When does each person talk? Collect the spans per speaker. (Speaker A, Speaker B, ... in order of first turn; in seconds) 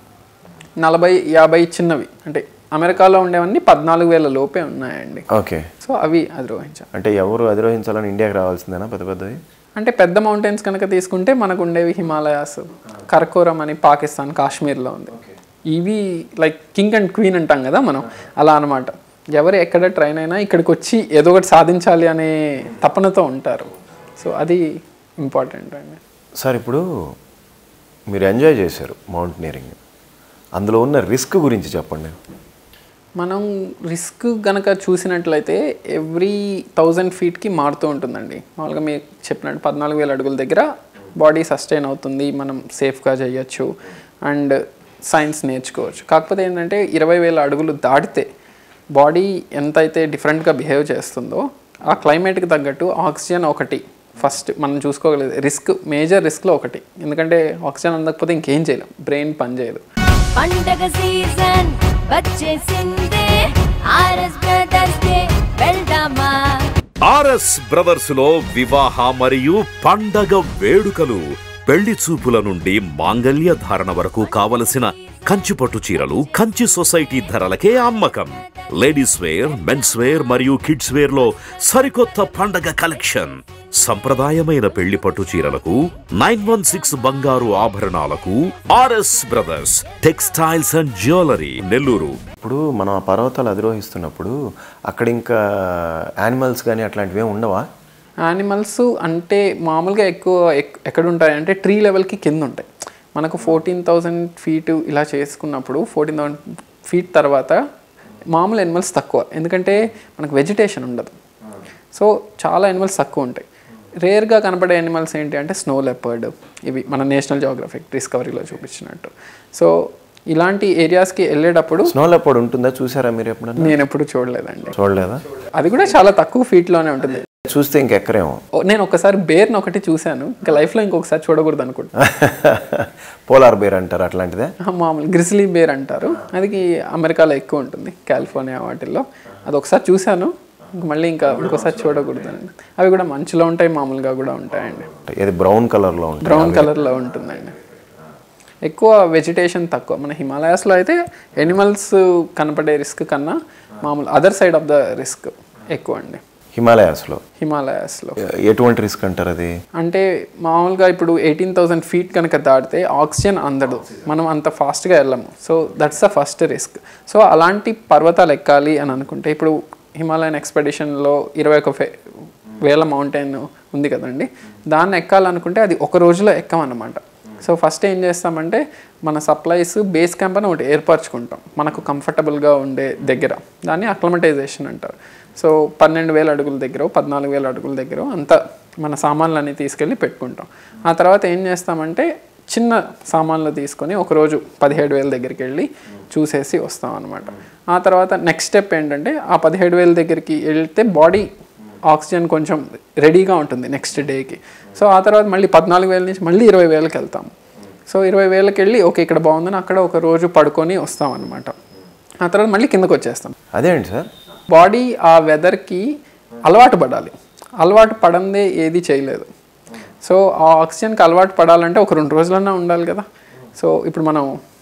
Speaker A: 0.8-5.3, 5.8-6.9, 9.8-26.0, 33.2-43.7, 44.2-48.3, 49.0-59.8, 98.2-107.6, 108.3-111.2, 111.9-113.4, 114.0-121.9, 123.6-124.7, 125.4-127.2, 128.6-131.9, 134.6-144.9, 146.2-147.6, 148.6-156.2, 157.4-158.2, 159.8-171.9, 172.6-201.3, 201.9-207.3, 207.9-211.6, 212.2-213.3, 214.5-215.9, 216.4-219.3, 220.0-223.1, 223.6-224.3
Speaker B: 5.3-5.7, 6.9-9.4, 26.4-26.8, 28.1-29.8, 30.6-32.1, 92.4-94.4, 94.9-97.7, 121.8-123.8, 124.7-125.2, 127.4-128.4, 132.0-134.5, 145.0-146.8, 156.5-157.2, 158.2-159.6, 213.5-214.1
Speaker C: 60.4-66.7
Speaker D: 67.0-92.2